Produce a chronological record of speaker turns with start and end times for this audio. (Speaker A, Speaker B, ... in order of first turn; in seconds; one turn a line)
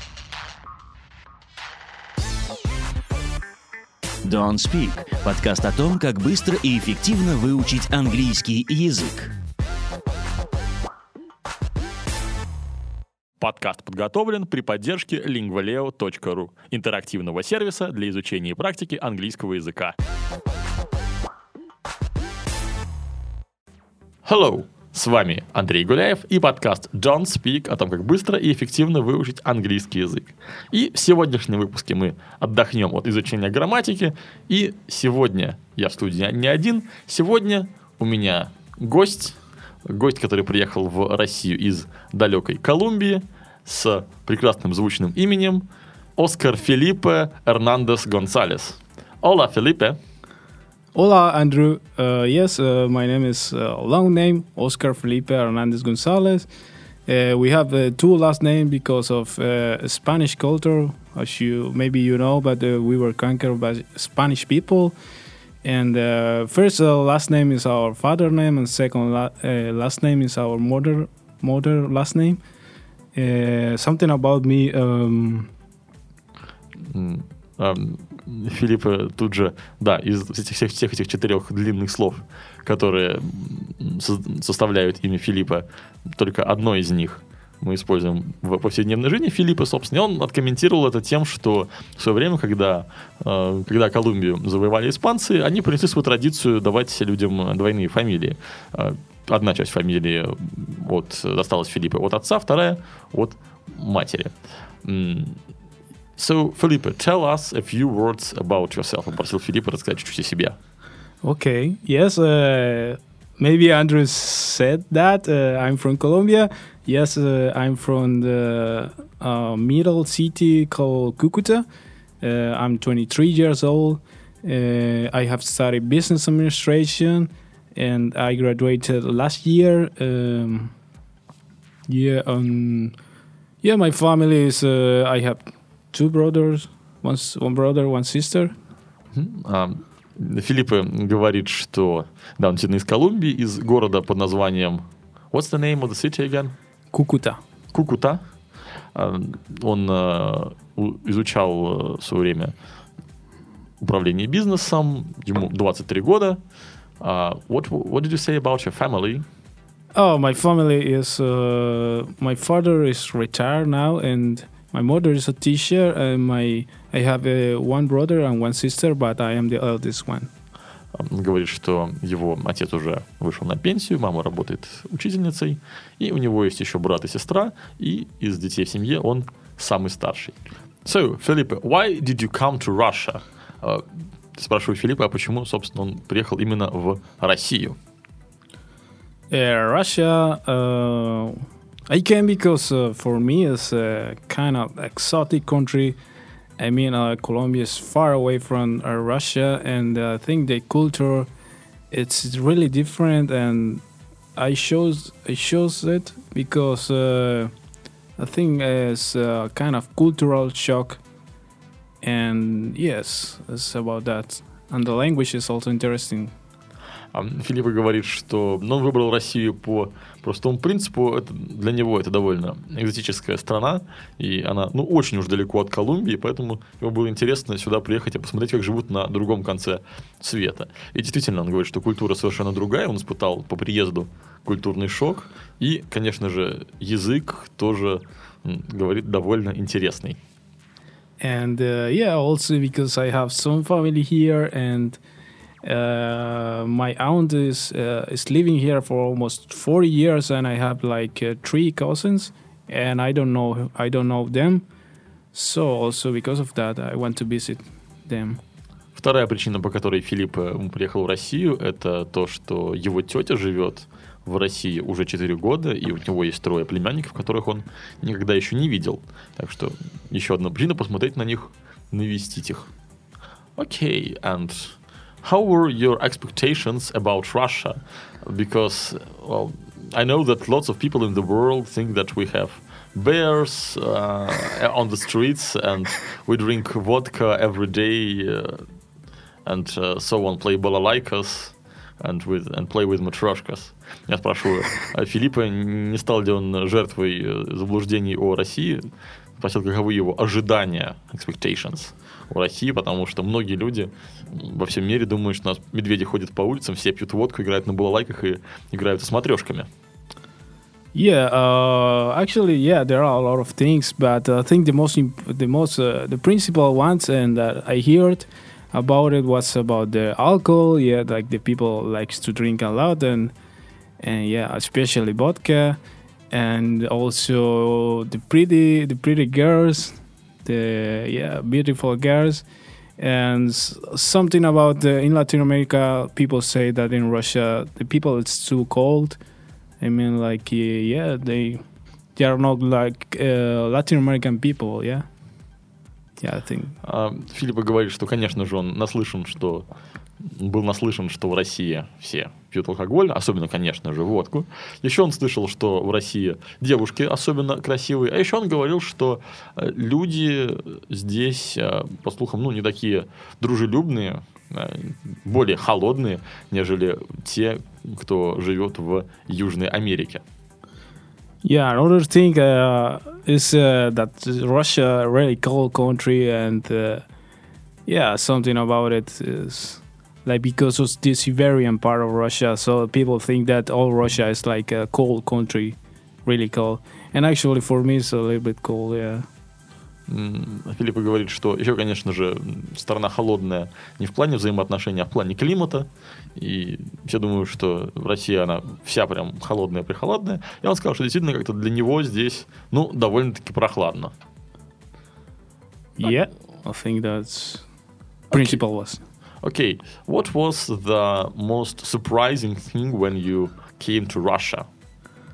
Speaker A: 4.2-9.3
Speaker B: 13.4-20.0
Speaker B: 24.2-45.6
Speaker B: 46.2-50.0
Speaker C: 50.9-56.5
Speaker C: 57.1-64.9
Speaker C: 65.6-72.4
Speaker C: 73.1-75.5
Speaker B: 76.8-105.4
Speaker B: 106.2-110.6
Speaker C: 111.2-121.7
Speaker C: 122.2-130.7
Speaker C: 131.9-132.9
Speaker C: 133.6-138.5
Speaker B: 139.1-146.5
Speaker C: 146.9-147.4
Speaker B: 147.7-148.2
Speaker B: 148.9-152.5
Speaker B: 153.8-156.4
Speaker B: 157.0-159.2
Speaker C: 159.9-170.3
Speaker B: 170.9-187.8
Speaker C: 189.3-196.0
Speaker C: 196.6-201.3
Speaker C: 201.9-203.8
Speaker C: 204.3-207.5
Speaker C: 208.2-211.0
Speaker C: 212.0-216.3
Speaker B: 217.1-240.2
Speaker C: 241.2-245.0
Speaker C: 245.6-254.6
Speaker C: 255.3-258.4
Speaker B: 258.9-272.7
Speaker B: 273.6-288.6
Speaker B: 289.4-298.9
Speaker B: 299.4-309.7
Speaker C: 310.9-323.3
Speaker C: 324.0-325.8
Speaker C: 326.3-332.4
Speaker C: 333.0-339.2
Speaker C: 339.8-341.6
Speaker C: 342.1-345.1
Speaker C: 346.2-346.8
Speaker B: 346.8-349.7
Speaker B: 350.2-370.2
Speaker C: 371.4-377.0
Speaker C: 377.9-389.3
Speaker B: 390.1-404.1
Speaker C: 406.0-407.6
Speaker C: 408.3-409.0
Speaker B: 409.4-414.7